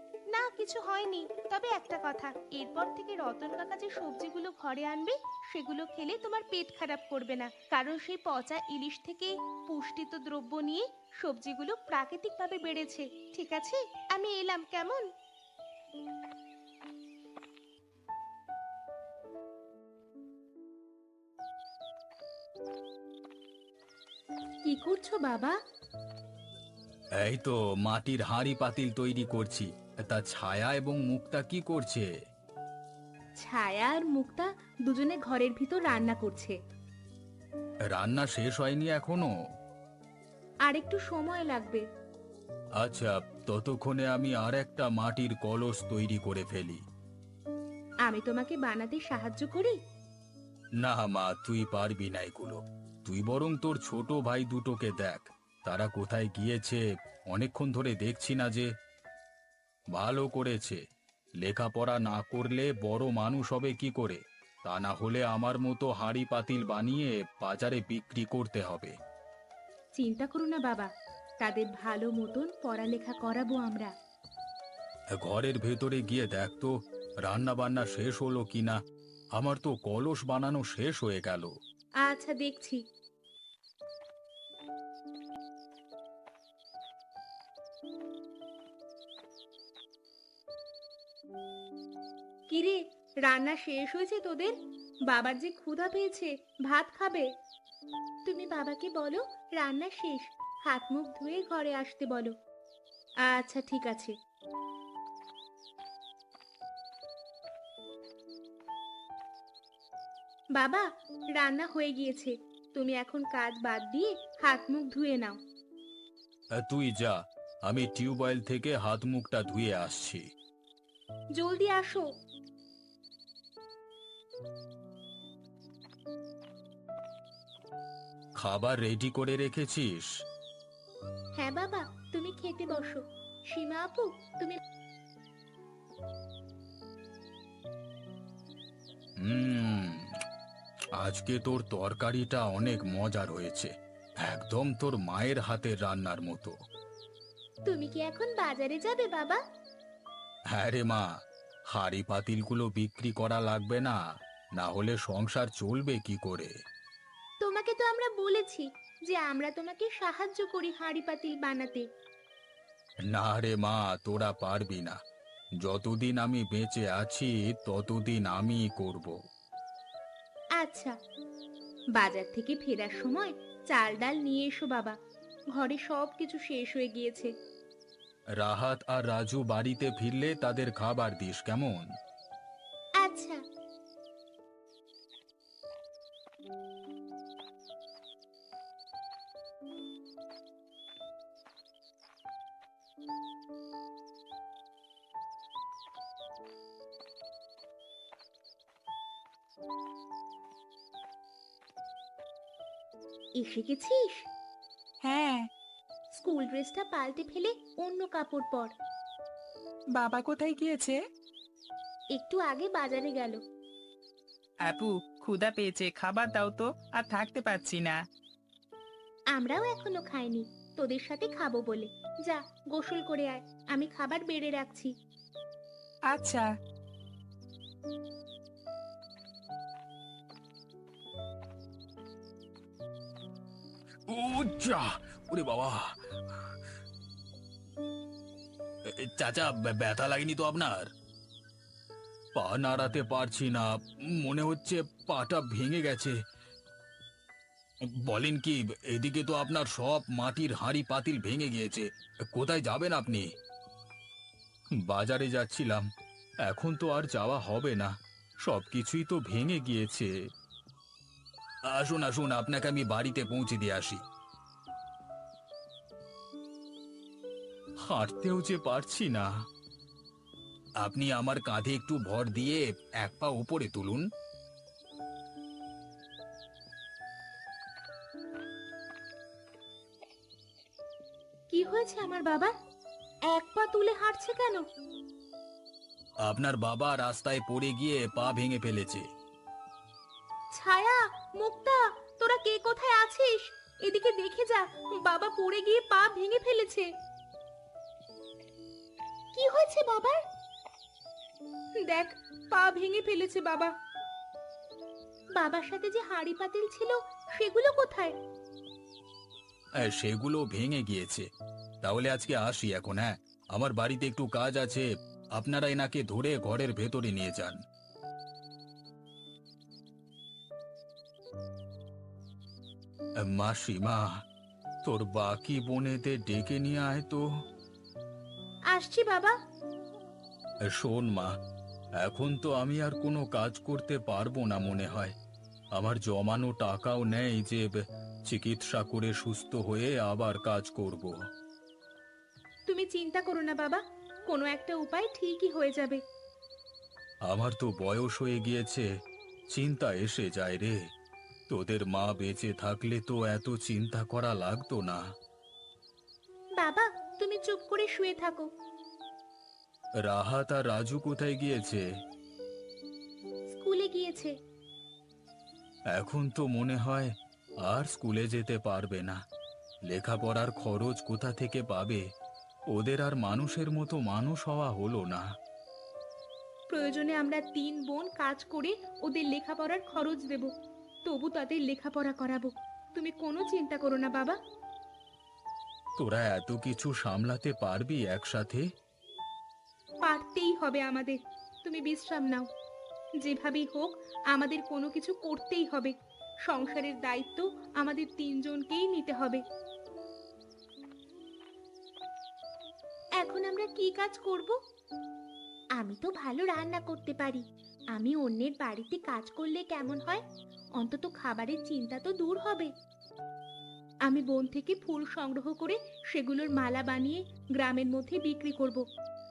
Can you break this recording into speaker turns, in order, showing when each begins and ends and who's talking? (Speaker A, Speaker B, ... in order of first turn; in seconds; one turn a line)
Speaker A: 0.3-15.1
Speaker A: 24.6-25.6
Speaker B: 27.2-32.1
Speaker A: 33.4-36.5
Speaker B: 37.9-39.3
Speaker A: 40.7-41.8
Speaker B: 42.8-46.8
Speaker A: 48.0-49.8
Speaker B: 50.8-58.7
Speaker B: 59.9-60.8
Speaker B: 61.4-69.0
Speaker A: 70.0-70.9
Speaker A: 71.4-73.9
Speaker B: 75.2-76.7
Speaker B: 77.2-78.8
Speaker B: 79.4-81.5
Speaker A: 82.0-82.8
Speaker A: 92.5-94.5
Speaker A: 95.1-97.3
Speaker A: 98.3-102.3
Speaker A: 103.3-104.2
Speaker A: 110.6-110.9
Speaker A: 111.4-115.4
Speaker B: 116.6-120.2
Speaker A: 121.4-122.1
Speaker B: 128.4-130.1
Speaker A: 131.4-134.6
Speaker B: 139.2-140.1
Speaker B: 141.0-146.6
Speaker A: 147.7-149.4
Speaker B: 150.5-151.1
Speaker B: 151.7-154.0
Speaker B: 154.6-156.5
Speaker A: 157.4-161.8
Speaker B: 163.1-165.0
Speaker B: 165.6-169.1
Speaker A: 170.6-170.9
Speaker A: 172.0-175.0
Speaker A: 175.6-177.3
Speaker B: 178.4-181.9
Speaker A: 183.0-183.4
Speaker A: 203.4-204.2
Speaker C: 205.0-205.5
Speaker A: 206.1-208.7
Speaker C: 210.0-211.0
Speaker A: 212.2-213.4
Speaker C: 214.6-218.0
Speaker A: 219.3-224.9
Speaker C: 226.1-226.5
Speaker B: 234.1-235.8
Speaker B: 238.9-240.9
Speaker B: 242.3-246.2
Speaker B: 247.8-253.3
Speaker B: 254.8-255.9
Speaker B: 256.4-257.9
Speaker B: 258.4-260.1
Speaker B: 261.7-264.0
Speaker B: 267.9-269.3
Speaker B: 270.8-274.1
Speaker A: 281.5-282.5
Speaker A: 283.3-284.6
Speaker B: 286.2-289.1
Speaker A: 290.6-296.9
Speaker A: 299.3-300.2
Speaker A: 301.8-303.7
Speaker A: 305.4-308.1
Speaker B: 309.8-311.3
Speaker B: 311.8-317.6
Speaker B: 323.2-324.0
Speaker B: 324.8-327.2
Speaker A: 328.7-329.4
Speaker B: 330.7-331.3
Speaker B: 332.0-335.1
Speaker B: 335.8-337.7
Speaker B: 338.3-341.1
Speaker A: 342.7-346.0
Speaker B: 347.3-348.9
Speaker B: 349.5-350.8
Speaker B: 351.5-355.0
Speaker A: 356.6-358.5
Speaker B: 360.1-361.8
Speaker A: 363.5-364.4
Speaker B: 365.9-369.2
Speaker B: 369.9-372.0
Speaker B: 372.7-375.2
Speaker A: 376.7-380.5
Speaker A: 381.1-384.4
Speaker B: 386.0-388.7
Speaker A: 390.1-392.5
Speaker A: 393.2-395.9
Speaker A: 396.5-399.4
Speaker A: 403.2-404.6
Speaker A: 405.8-410.2
Speaker A: 410.8-412.7
Speaker A: 414.1-418.9